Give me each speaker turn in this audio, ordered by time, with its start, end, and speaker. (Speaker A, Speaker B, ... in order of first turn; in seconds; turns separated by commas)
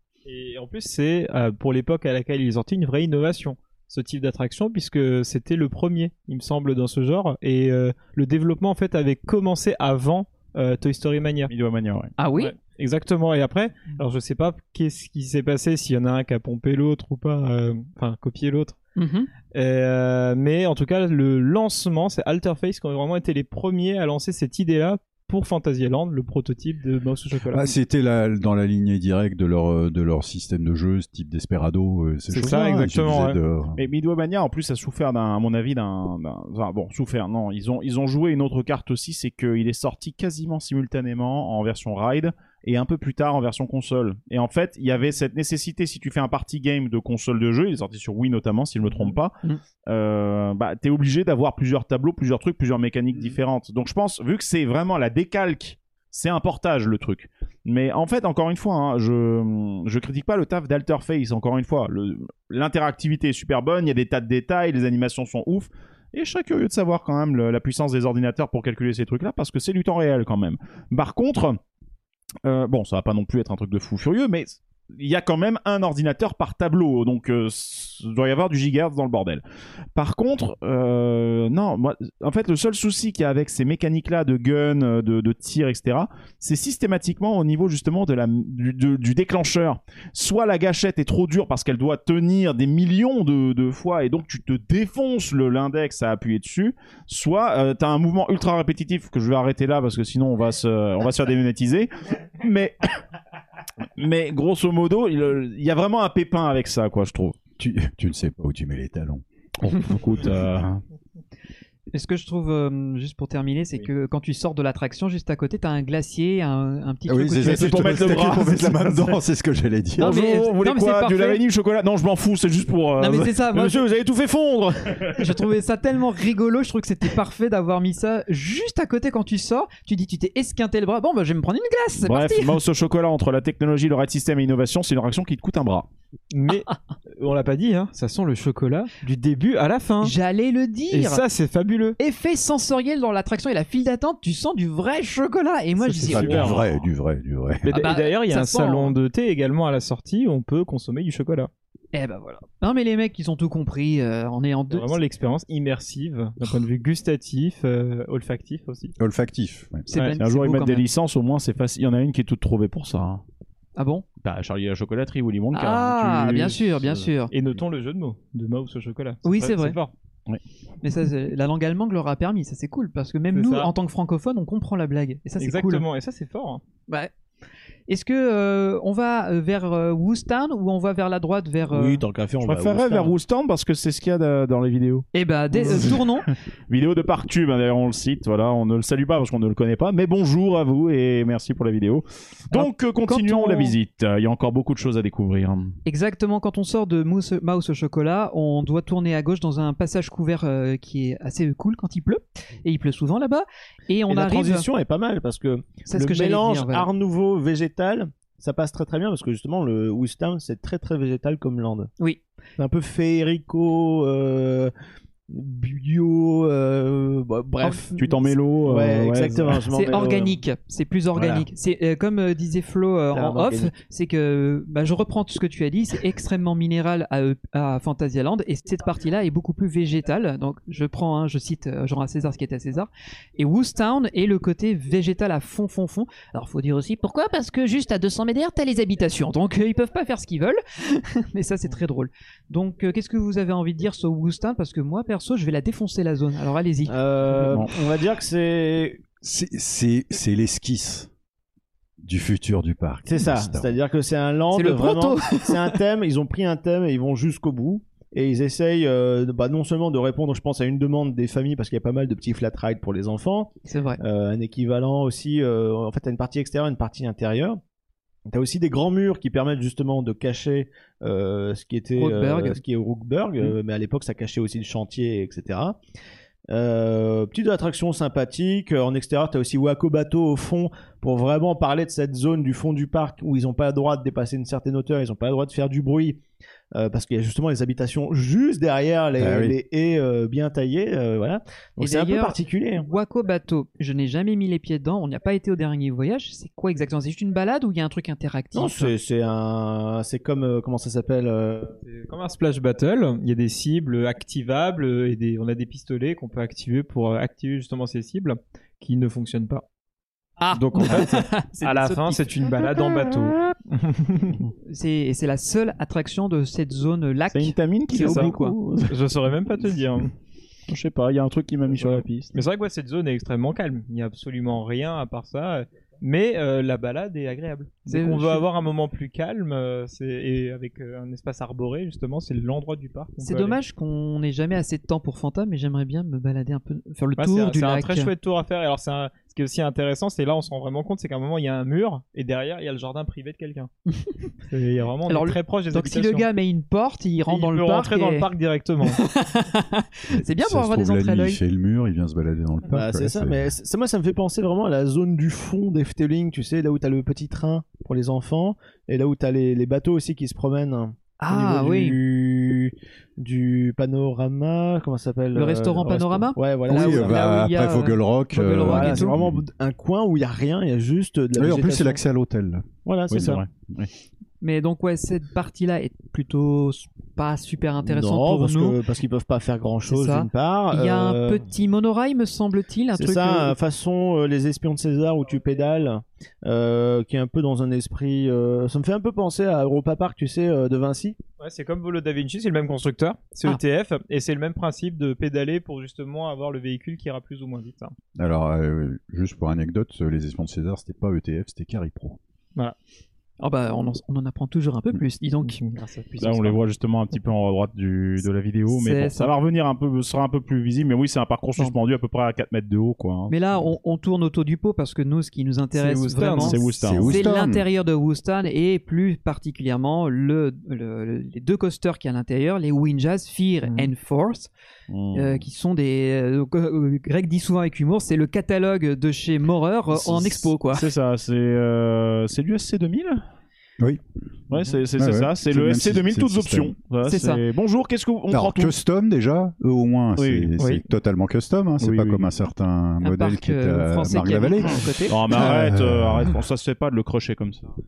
Speaker A: 0.3-11.5, Speaker B: 11.5-12.1, Speaker C: 12.2-12.5, Speaker A: 12.3-18.8, Speaker C: 19.0-19.3, Speaker A: 19.5-27.7, Speaker D: 27.5-33.8, Speaker A: 32.3-33.4, Speaker B: 33.8-49.4, Speaker B: 49.9-71.6, Speaker B: 72.5-79.4, Speaker B: 80.0-102.8, Speaker B: 104.0-107.4, Speaker D: 107.6-109.2, Speaker B: 109.6-110.8, Speaker C: 111.9-118.2, Speaker D: 117.1-120.1, Speaker B: 117.4-119.2, Speaker C: 120.0-121.4, Speaker B: 120.0-123.5, Speaker C: 123.0-123.8, Speaker E: 123.5-125.1, Speaker C: 125.1-132.6, Speaker B: 132.0-135.9, Speaker A: 136.3-140.2, Speaker C: 140.0-141.2, Speaker A: 140.9-142.0, Speaker C: 142.0-146.6, Speaker A: 145.9-146.6, Speaker D: 146.1-147.7, Speaker A: 147.6-151.5, Speaker C: 147.7-148.9, Speaker C: 151.9-155.0, Speaker A: 154.7-158.9, Speaker D: 159.0-159.9, Speaker C: 159.9-160.8, Speaker B: 159.9-163.2, Speaker C: 163.8-164.1, Speaker B: 164.2-167.0, Speaker C: 165.5-167.3, Speaker A: 167.3-169.9, Speaker C: 169.2-169.8, Speaker C: 170.8-175.8, Speaker A: 173.3-173.7, Speaker A: 175.4-176.6, Speaker C: 177.9-182.0, Speaker E: 181.7-183.2, Speaker B: 182.4-195.8, Speaker C: 185.1-186.3, Speaker C: 192.5-193.8, Speaker C: 195.9-204.7, Speaker E: 204.1-211.9, Speaker C: 205.9-206.9, Speaker E: 212.6-214.7, Speaker E: 215.3-220.4, Speaker B: 217.9-219.7, Speaker C: 219.7-247.6, Speaker E: 223.1-223.7, Speaker E: 246.9-249.0, Speaker D: 249.2-251.1, Speaker D: 252.0-253.7, Speaker E: 253.1-267.6, Speaker C: 254.5-255.8, Speaker C: 263.7-264.0, Speaker E: 268.3-275.8, Speaker C: 272.0-272.6, Speaker E: 276.5-286.2, Speaker E: 286.8-292.9, Speaker D: 289.2-289.6, Speaker C: 291.8-298.9, Speaker E: 298.6-301.8, Speaker A: 301.9-309.6, Speaker C: 310.4-312.3, Speaker B: 310.6-311.1, Speaker A: 310.7-314.4, Speaker C: 314.7-318.6, Speaker B: 317.3-319.0, Speaker A: 318.0-318.3, Speaker A: 318.9-320.1, Speaker B: 320.7-322.4, Speaker A: 321.9-333.6, Speaker C: 327.9-328.5, Speaker C: 333.2-338.1, Speaker A: 337.2-343.7, Speaker A: 344.4-346.3, Speaker C: 345.1-348.3, Speaker A: 347.3-349.0, Speaker C: 348.9-351.4, Speaker D: 350.1-353.5, Speaker E: 352.7-367.2, Speaker C: 361.2-362.0, Speaker C: 365.3-369.1, Speaker D: 366.7-369.4, Speaker E: 368.6-372.0, Speaker D: 371.4-373.4, Speaker E: 372.9-373.4, Speaker B: 373.1-373.9, Speaker C: 374.4-378.8, Speaker E: 377.9-381.4, Speaker C: 379.9-383.6, Speaker E: 382.9-391.2, Speaker A: 391.4-397.9, Speaker D: 398.2-402.2, Speaker C: 403.4-405.6, Speaker A: 405.4-406.5, Speaker B: 406.2-413.6, Speaker C: 408.7-409.3, Speaker C: 413.3-424.5, Speaker A: 415.7-416.6, Speaker B: 416.4-417.2, Speaker D: 416.8-417.6, Speaker B: 424.9-425.4, Speaker C: 425.1-430.9, Speaker B: 430.0-433.2, Speaker B: 434.5-438.7, Speaker D: 434.9-436.8, Speaker C: 437.0-437.4, Speaker D: 438.3-446.4, Speaker B: 440.2-440.5, Speaker B: 441.8-442.3, Speaker C: 443.0-445.3, Speaker B: 445.1-447.7